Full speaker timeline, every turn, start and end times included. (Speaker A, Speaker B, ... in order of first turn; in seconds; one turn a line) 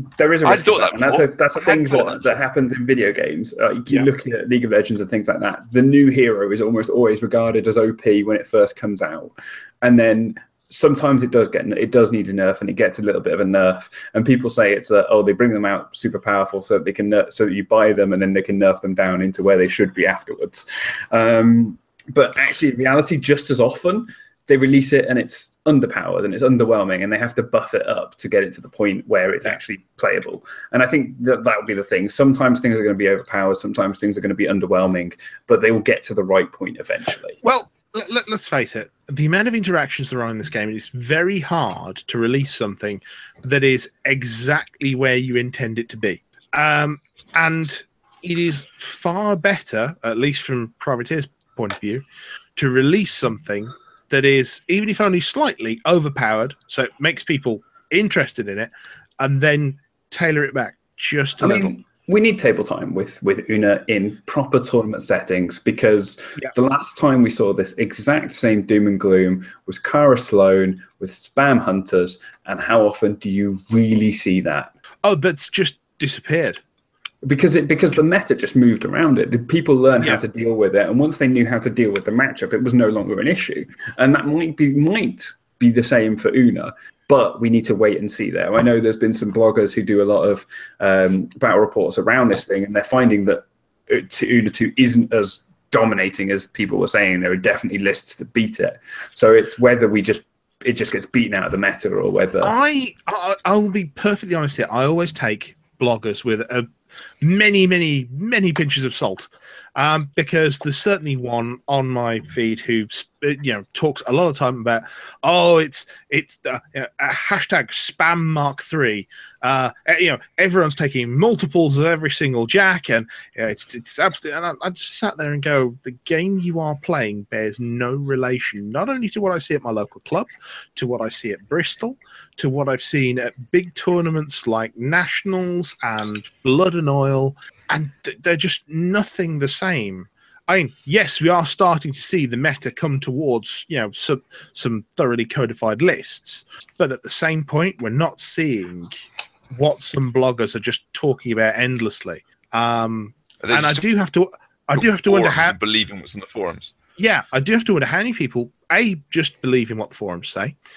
Speaker A: 0.1-37.4
Speaker B: 0.4-2.4
Speaker C: 37.4-52.0
Speaker C: 52.5-61.7
Speaker A: 61.4-74.7
Speaker C: 75.0-76.6
Speaker A: 77.2-102.5
Speaker C: 102.4-106.7
Speaker C: 107.2-155.6
Speaker B: 153.4-153.8
Speaker B: 154.8-156.7
Speaker C: 157.0-160.6